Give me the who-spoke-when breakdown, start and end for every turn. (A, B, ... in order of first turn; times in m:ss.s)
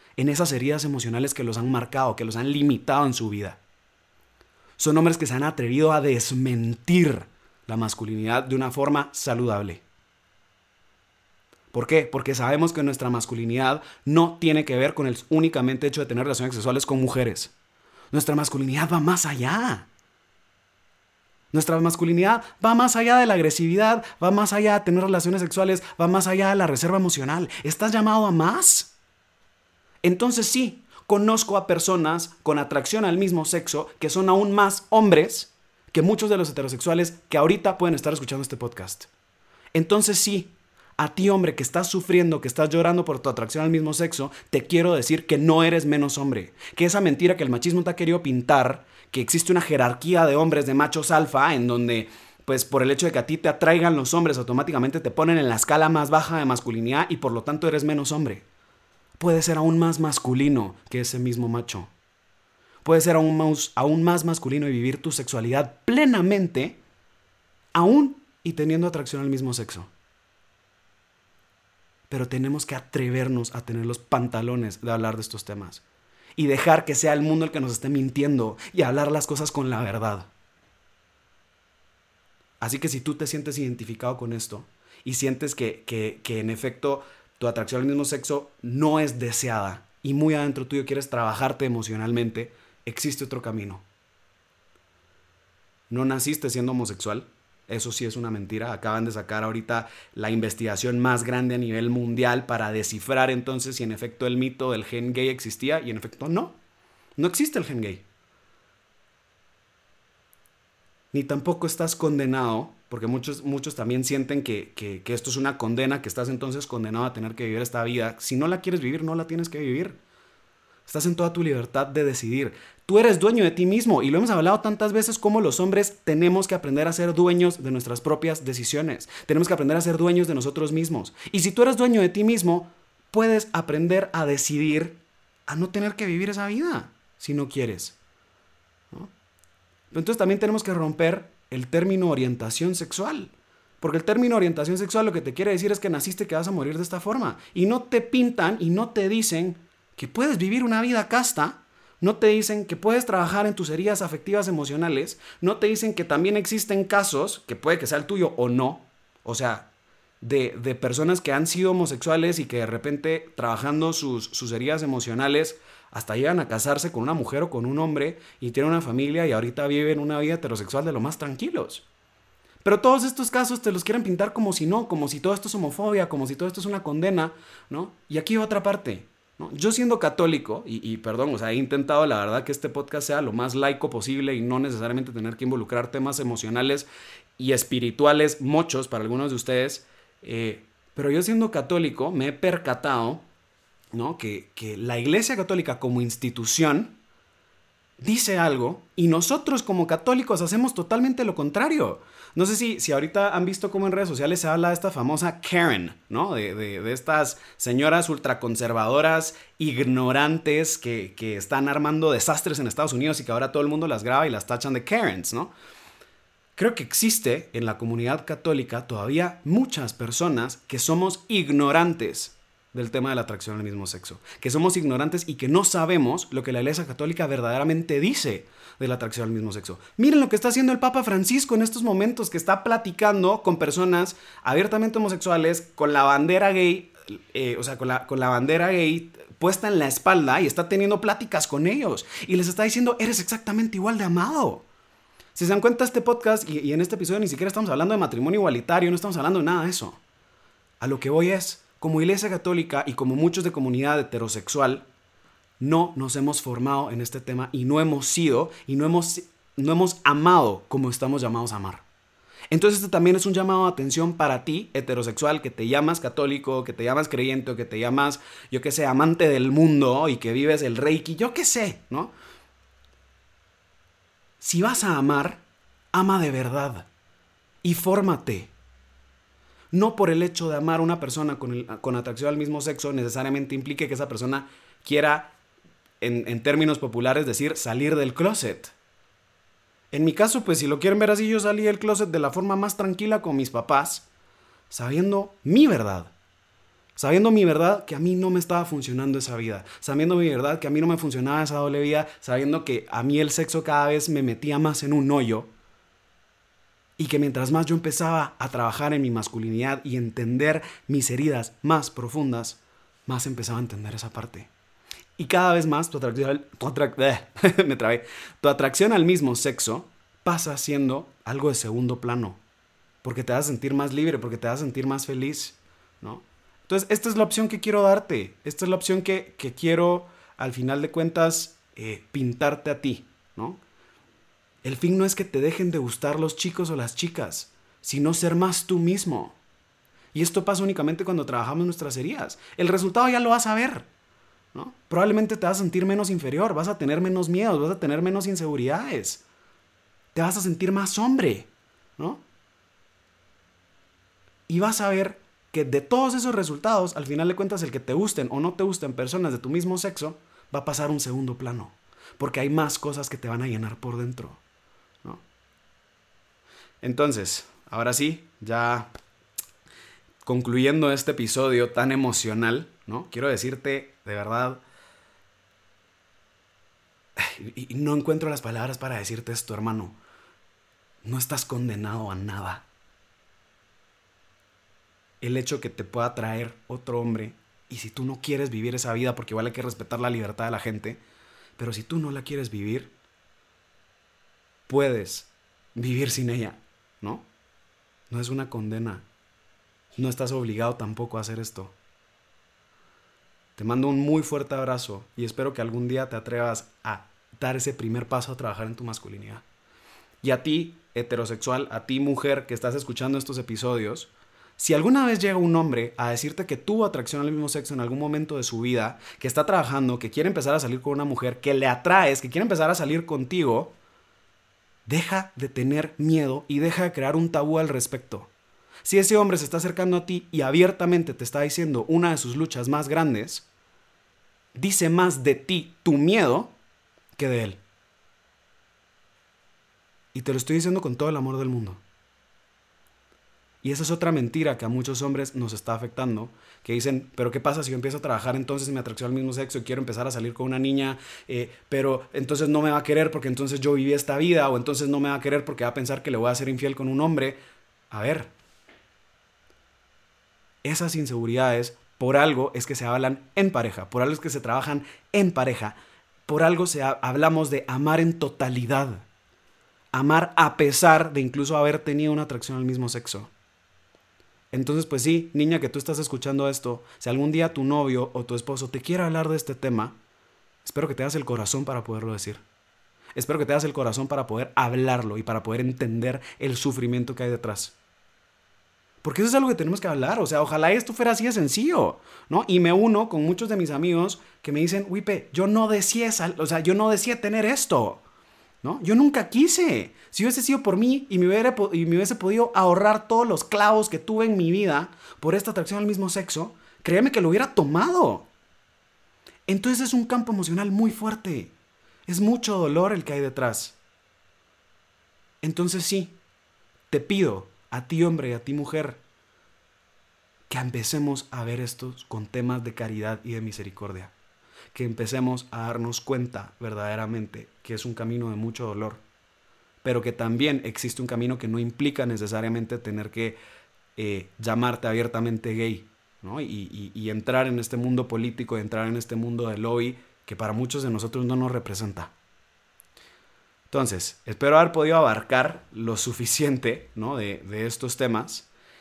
0:00.2-0:03.6 A
0:04.8-0:09.8 A
0:11.7-0:17.5 A
0:18.1-0:19.9 A
0:21.5-0:28.9 A
0:30.0-0:39.1 A
0:39.7-0:58.4 A
0:59.2-1:01.9 A
1:02.8-1:06.8 A
1:07.7-1:09.9 A
1:12.1-1:15.8 A
1:16.4-1:20.3 A
1:22.6-1:33.8 A
1:35.9-1:46.6 A
1:47.2-1:48.0 A
1:51.1-2:00.0 A
2:00.9-2:18.0 A
2:19.9-2:39.7 A
2:40.2-2:51.8 A
2:52.6-3:06.9 A
3:07.4-3:13.3 A
3:13.9-3:17.0 A
3:18.0-3:35.5 A
3:36.6-4:04.6 A
4:05.4-4:10.0 A
4:10.8-4:14.9 A
4:15.6-4:21.8 A
4:22.5-4:32.1 A
4:34.4-4:36.9 A
4:37.6-4:38.5 A
4:39.7-4:45.3 A
4:46.0-4:48.7 A
4:49.9-4:54.1 A
4:54.7-4:56.1 A
4:57.0-5:05.5 A
5:07.0-5:14.5 A
5:15.2-5:22.4 A
5:23.0-5:33.6 A
5:34.6-5:39.4 A
5:40.1-5:43.9 A
5:44.5-5:49.2 A
5:50.1-5:52.2 A
5:54.5-6:04.4 A
6:06.8-6:08.9 A
6:10.2-6:14.6 A
6:17.2-6:20.0 A
6:21.0-6:22.7 A
6:25.2-6:31.0 A
6:31.6-6:32.9 A
6:34.7-6:37.3 A
6:38.1-6:39.1 A
6:40.0-6:41.8 A
6:43.6-6:49.4 A
6:50.2-7:03.7 A
7:04.9-7:08.3 A
7:08.8-7:13.5 A
7:14.6-7:16.6 A
7:17.2-7:17.6 A
7:20.1-7:21.8 A
7:23.6-7:37.4 A
7:37.9-7:38.3 A
7:40.6-7:49.1 A
7:49.9-7:53.3 A
7:54.5-8:00.0 A
8:00.6-8:02.4 A
8:03.2-8:07.8 A
8:09.0-8:18.0 A
8:18.6-8:28.3 A
8:29.5-8:31.5 A
8:32.1-8:33.8 A
8:35.4-8:36.2 A
8:36.9-8:39.0 A
8:40.5-8:44.1 A
8:44.7-8:49.0 A
8:49.8-8:53.4 A
8:54.0-9:02.1 A
9:03.7-9:08.5 A